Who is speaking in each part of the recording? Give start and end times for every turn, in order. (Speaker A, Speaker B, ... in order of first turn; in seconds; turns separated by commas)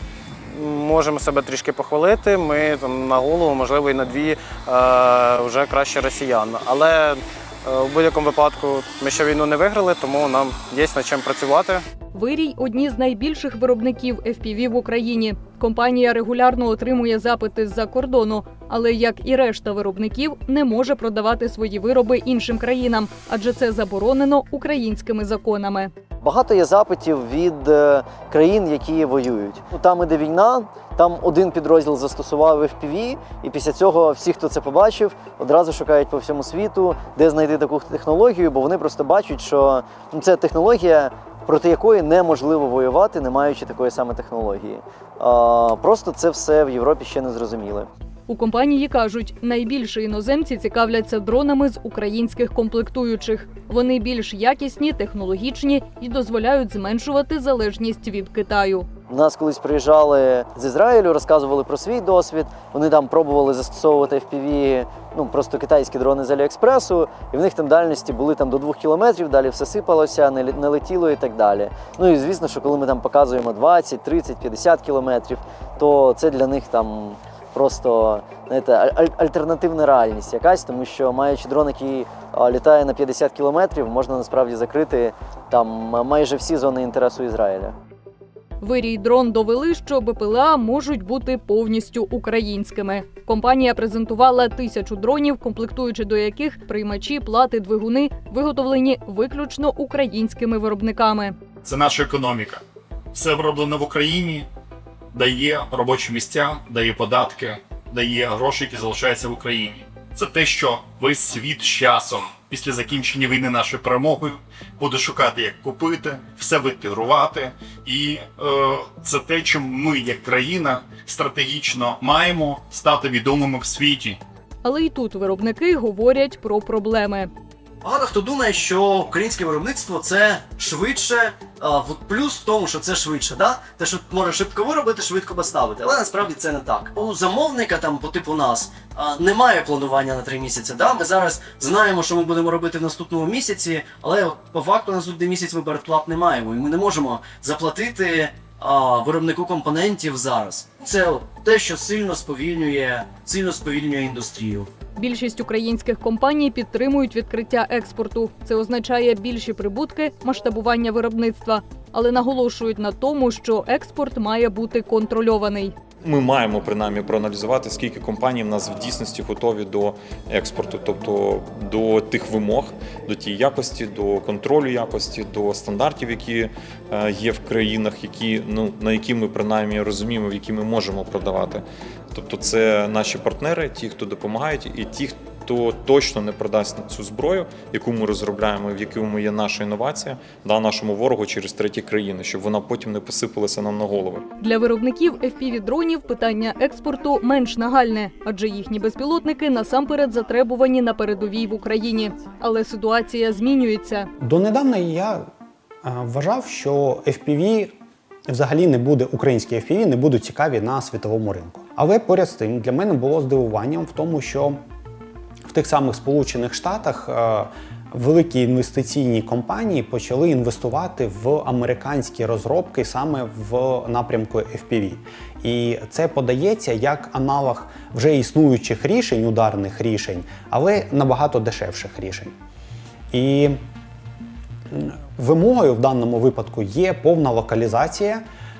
Speaker A: 0.5-11.8, Speaker B: 12.1-25.9, Speaker C: 26.2-47.9, Speaker B: 48.3-58.9, Speaker C: 59.1-87.8, Speaker B: 88.6-101.3, Speaker D: 101.6-102.6, Speaker D: 103.1-104.5, Speaker D: 105.1-124.2, Speaker B: 124.6-127.3, Speaker E: 127.8-130.5, Speaker E: 131.8-145.8, Speaker E: 146.5-154.7, Speaker B: 154.9-165.7, Speaker F: 166.0-194.2, Speaker B: 194.4-204.1, Speaker G: 204.2-205.2, Speaker G: 205.8-207.8, Speaker G: 208.3-214.6, Speaker G: 215.5-232.3, Speaker G: 233.1-233.6, Speaker G: 234.7-238.2